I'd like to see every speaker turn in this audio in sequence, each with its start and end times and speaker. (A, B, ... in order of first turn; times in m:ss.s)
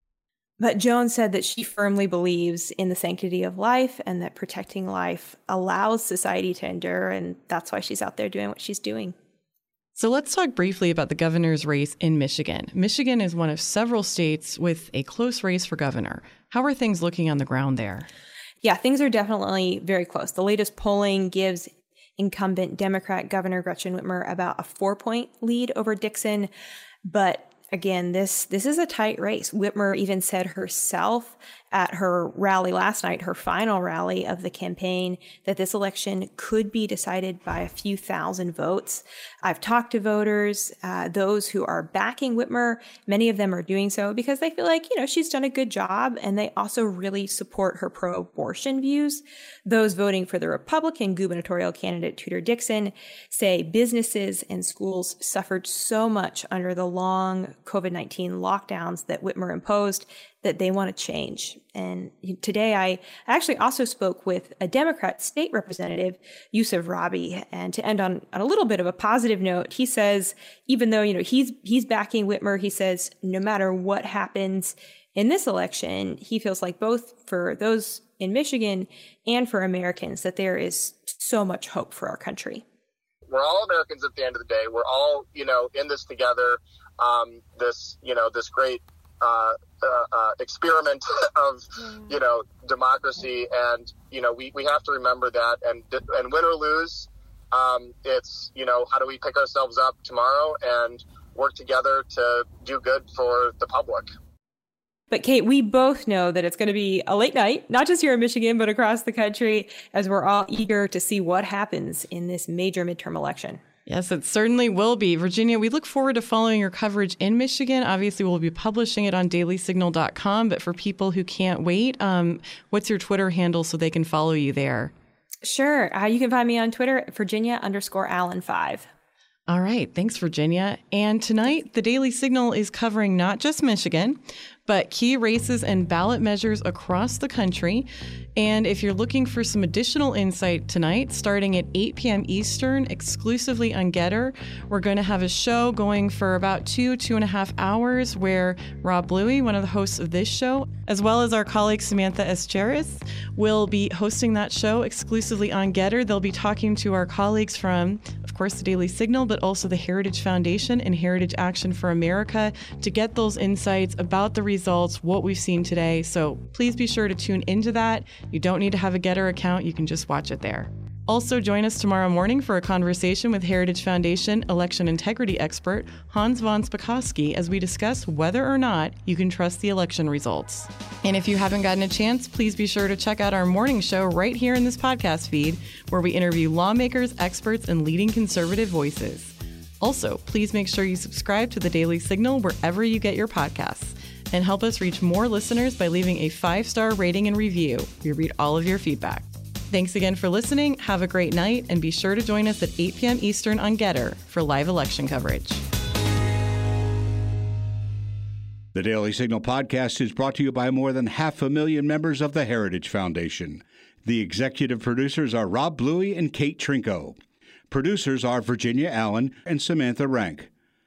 0:00.6-0:09.1 A
0:10.0-0:18.1 B
0:18.6-0:26.5 A
0:27.1-1:22.6 A
1:23.3-1:44.1 C
1:45.1-1:53.6 A
1:53.9-2:04.9 B
2:05.4-2:08.9 A
2:09.5-3:25.6 B
3:28.7-3:37.2 D
3:37.7-3:40.5 D